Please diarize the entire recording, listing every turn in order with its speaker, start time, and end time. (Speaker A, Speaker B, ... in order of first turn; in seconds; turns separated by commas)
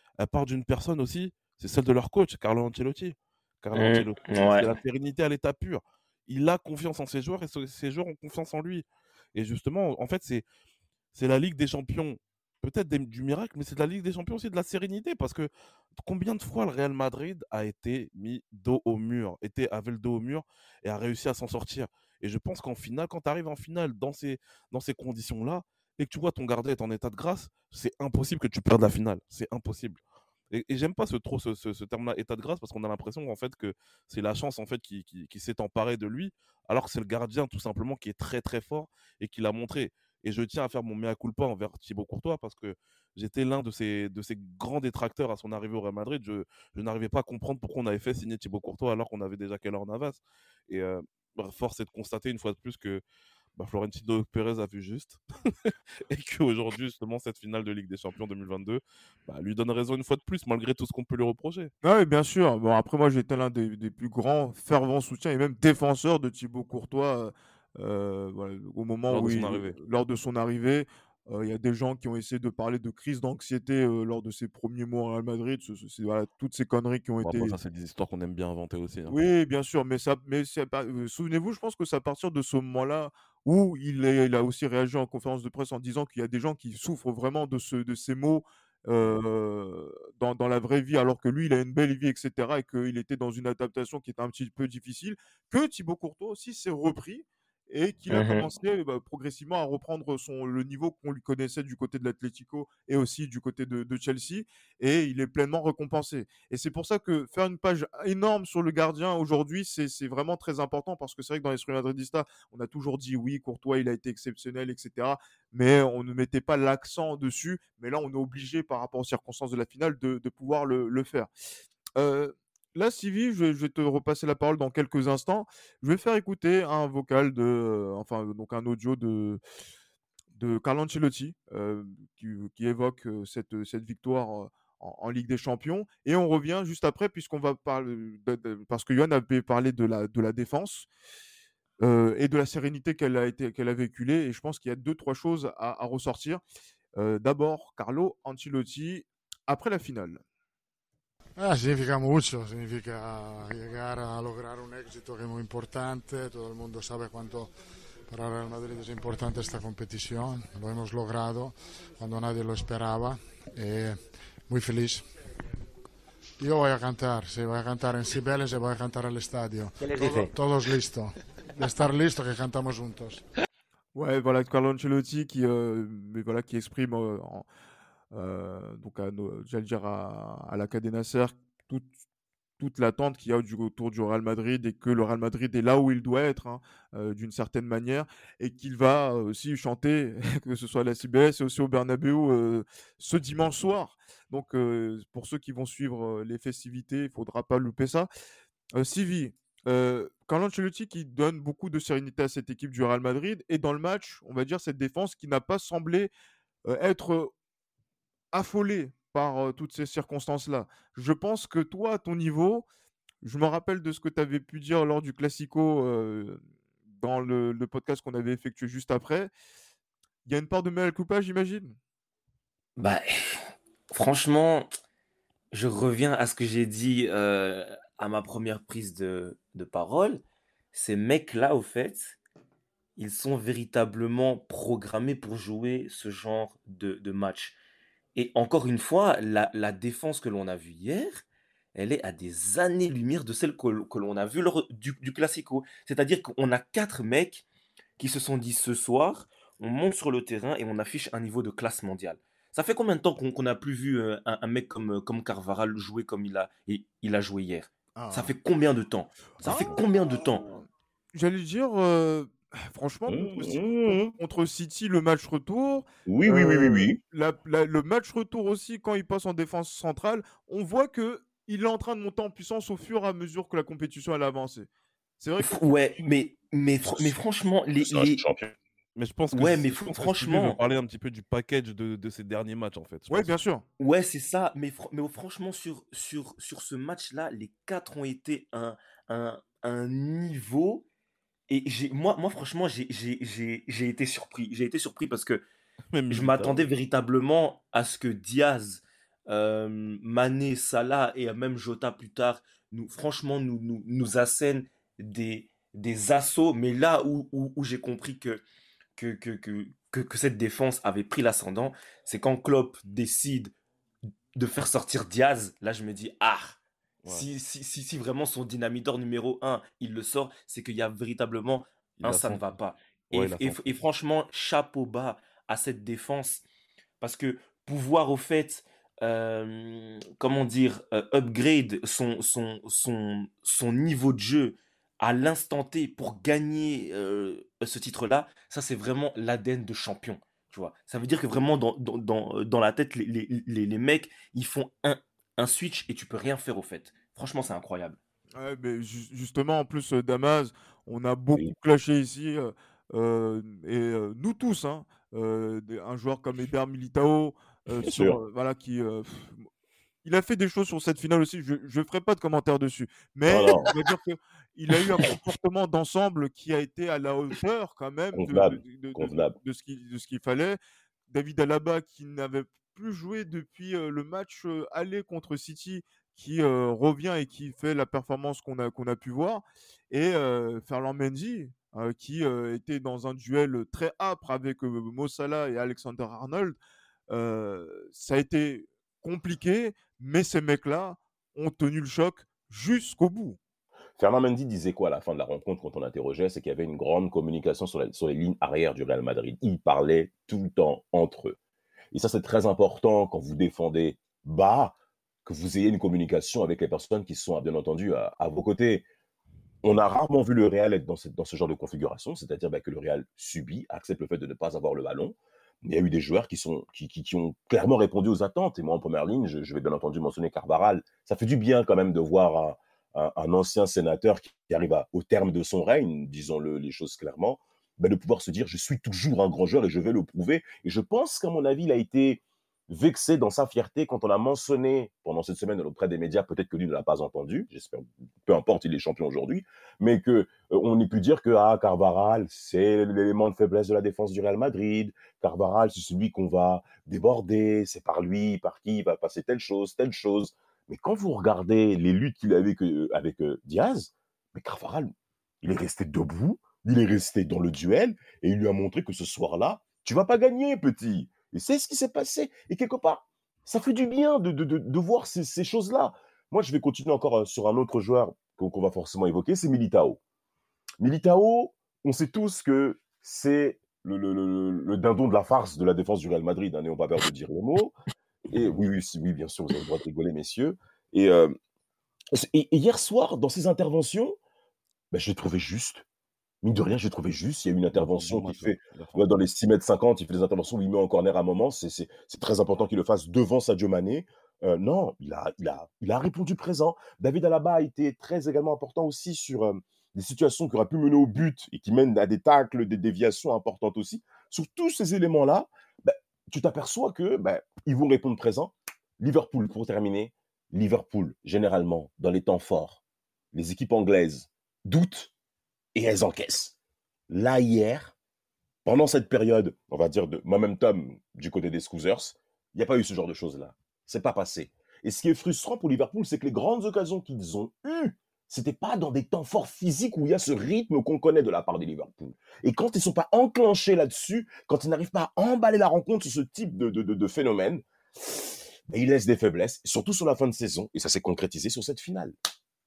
Speaker A: 0.2-10.4, Speaker B: 3.7-4.7, Speaker A: 11.1-53.0, Speaker A: 53.6-61.7, Speaker C: 61.8-77.6, Speaker A: 69.1-69.8, Speaker A: 77.2-79.2, Speaker C: 79.1-121.3, Speaker B: 98.1-98.5, Speaker C: 122.0-129.4, Speaker C: 130.4-140.9, Speaker C: 141.8-146.4, Speaker C: 147.0-150.2, Speaker D: 151.4-157.5, Speaker D: 158.1-165.1, Speaker D: 166.4-173.2, Speaker C: 173.9-177.4, Speaker C: 178.1-181.9, Speaker C: 182.6-198.1, Speaker C: 198.8-206.1, Speaker C: 206.7-207.3, Speaker C: 208.3-212.7, Speaker C: 213.2-216.4, Speaker C: 217.0-219.3, Speaker C: 220.2-221.8, Speaker B: 222.8-224.7, Speaker B: 225.5-230.2, Speaker B: 230.7-232.2, Speaker B: 233.0-237.6, Speaker B: 238.2-247.4, Speaker B: 248.0-260.5, Speaker C: 258.0-258.3, Speaker C: 259.4-274.7, Speaker E: 263.1-264.1, Speaker E: 266.1-267.0, Speaker C: 275.2-275.6, Speaker B: 275.4-278.2, Speaker E: 276.9-277.2, Speaker E: 277.8-278.6, Speaker A: 279.0-283.3, Speaker B: 279.3-280.6, Speaker C: 283.1-283.6, Speaker B: 283.8-290.9, Speaker B: 291.5-295.5, Speaker A: 295.9-296.7, Speaker B: 296.1-308.4, Speaker B: 309.0-313.5, Speaker B: 314.4-326.4, Speaker A: 322.0-322.4, Speaker A: 323.1-323.8, Speaker B: 327.0-348.0, Speaker C: 348.4-359.5, Speaker E: 357.8-358.2, Speaker C: 360.0-370.6, Speaker E: 363.3-363.7, Speaker E: 368.1-369.4, Speaker C: 371.1-386.6, Speaker C: 387.1-393.4, Speaker E: 394.0-401.4, Speaker E: 401.9-408.9, Speaker E: 409.6-454.9, Speaker E: 455.4-470.0, Speaker E: 470.8-477.8, Speaker E: 478.3-481.4, Speaker E: 482.1-484.2, Speaker E: 484.9-485.8, Speaker E: 486.4-512.8, Speaker A: 487.8-489.1, Speaker E: 513.3-515.1, Speaker E: 515.8-516.5, Speaker E: 517.1-518.0, Speaker E: 518.6-538.1, Speaker E: 538.7-542.1